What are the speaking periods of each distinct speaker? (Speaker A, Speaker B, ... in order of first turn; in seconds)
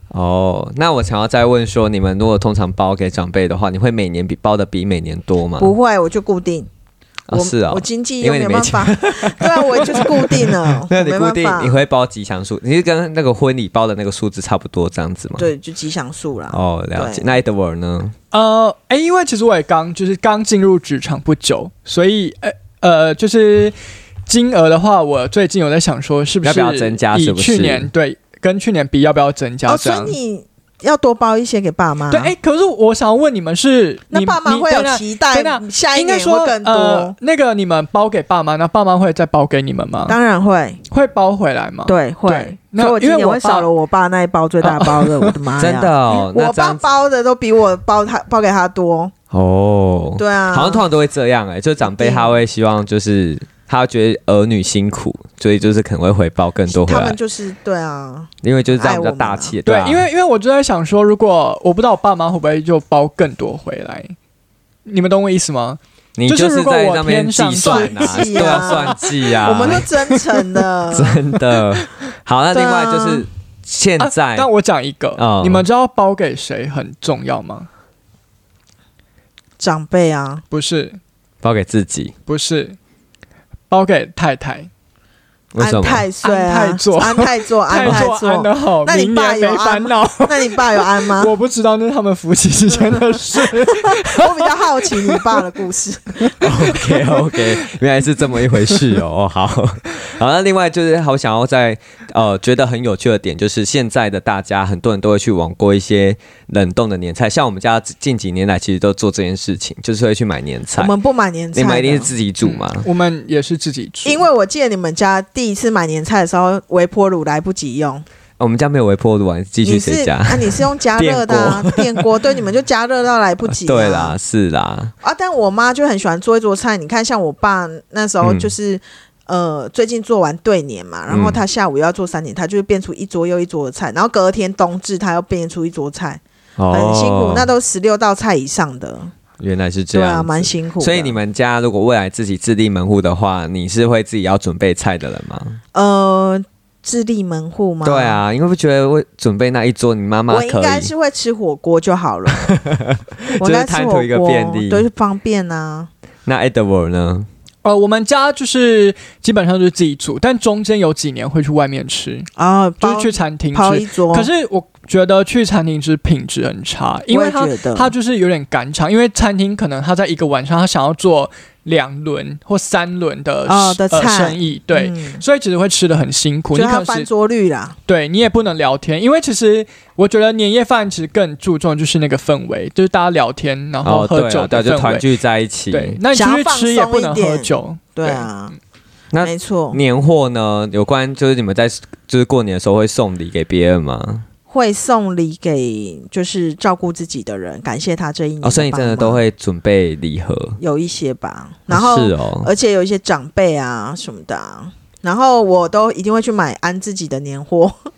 Speaker A: 0.1-5.7, 7.3-15.5, 16.5-18.1, 26.4-27.9, 45.6-46.8, 49.3-57.2, 58.4-60.1, 66.2-69.9, 70.9-74.5, 75.2-75.7, 81.4-82.1, 85.5-86.0, 96.4-110.9, 111.5-112.9, 118.4-122.0, 123.5-124.9, 128.2-128.5, 131.1-131.4, 136.6-137.5, 139.4-145.6, 147.8-150.9, 152.3-154.8, 156.2-157.3, 183.8-186.0, 189.1-194.2, 198.4-200.6, 201.7-202.5
Speaker B: 5.6-6.7, 7.3-11.8, 15.4-17.4, 29.7-32.3, 34.1-37.1, 40.1-40.8, 41.9-49.1, 50.2-50.8, 51.8-52.4, 56.7-59.5, 67.6-71.2, 72.5-73.2, 79.6-80.4, 85.6-91.3, 92.9-96.5, 110.8-112.1, 114.0-118.0, 119.6-124.2, 125.0-139.1, 139.9-141.2, 145.7-148.2, 150.3-152.5, 153.4-155.9, 162.4-164.3, 167.1-167.9, 173.4-175.2, 176.5-177.8, 186.1-188.5, 189.2-189.8, 194.5-199.2, 200.6-207.7
Speaker C: 18.3-23.7, 24.2-30.2, 32.1-40.2, 40.9-43.7, 44.6-45.3, 59.6-64.1, 64.8-70.5, 74.0-77.7, 80.5-81.0, 82.3-82.8, 83.7-84.7, 86.2-95.4, 96.4-97.4, 98.5-98.9, 112.4-114.2, 157.6-162.3, 162.8-177.1, 177.9-185.1, 185.7-188.2